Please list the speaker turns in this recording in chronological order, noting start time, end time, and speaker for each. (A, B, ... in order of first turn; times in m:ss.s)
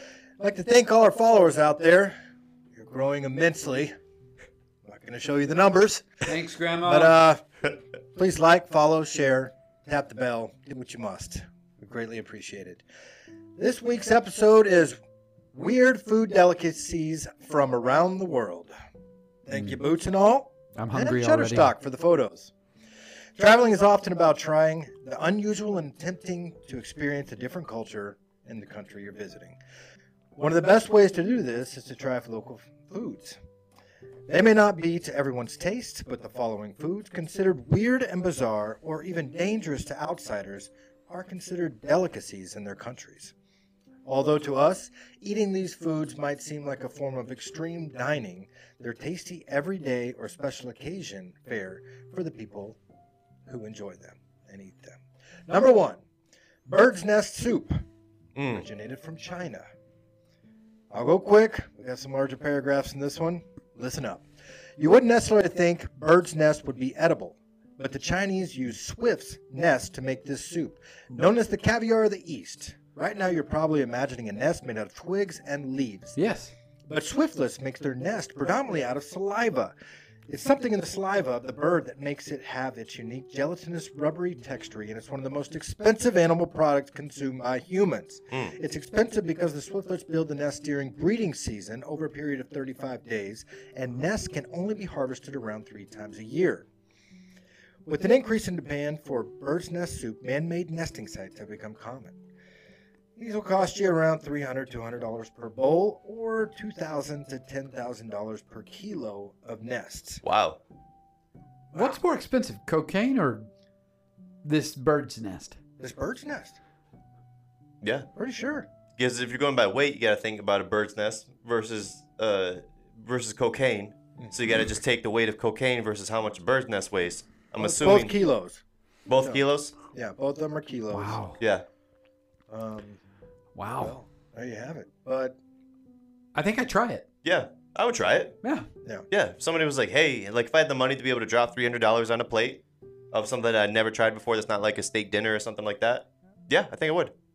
0:00.4-0:02.1 A
0:02.8-0:03.9 A
0:04.8-0:07.4 A
0:06.3-0:07.2 B
0:08.1-0:12.8 A
0:13.6-0:15.0 A
0:15.5-0:18.7 A
0:19.4-0:22.5 A
0:20.8-0:21.7 B
0:23.4-0:29.6 A
0:30.4-0:33.4 A
0:34.3-0:43.3 A
0:44.0-0:52.8 A
0:53.4-0:56.0 A
0:56.6-0:57.8 A
0:58.4-0:58.6 C
0:58.4-0:59.6 A
1:00.9-1:04.2 A
1:04.8-1:16.2 A
1:16.2-1:16.5 B
1:16.9-1:19.7 A
1:20.3-1:36.7 A
1:37.8-1:42.2 A
1:43.2-1:50.2 A
1:50.2-1:50.6 C
1:51.7-1:52.0 A
1:51.7-1:53.5 B
1:54.4-1:55.6 B
1:55.8-1:56.6 A
1:57.8-1:58.1 C
1:58.1-1:58.7 A
1:59.0-2:08.1 C
2:07.6-2:08.6 A
2:09.1-2:09.7 C
2:09.2-2:11.2 A
2:10.9-2:11.4 B
2:11.4-2:11.6 C
2:12.5-2:13.0 A
2:13.5-2:13.9 B
2:13.8-2:15.4 A
2:16.3-2:17.0 B
2:17.2-2:18.3 C
2:19.1-2:27.1 C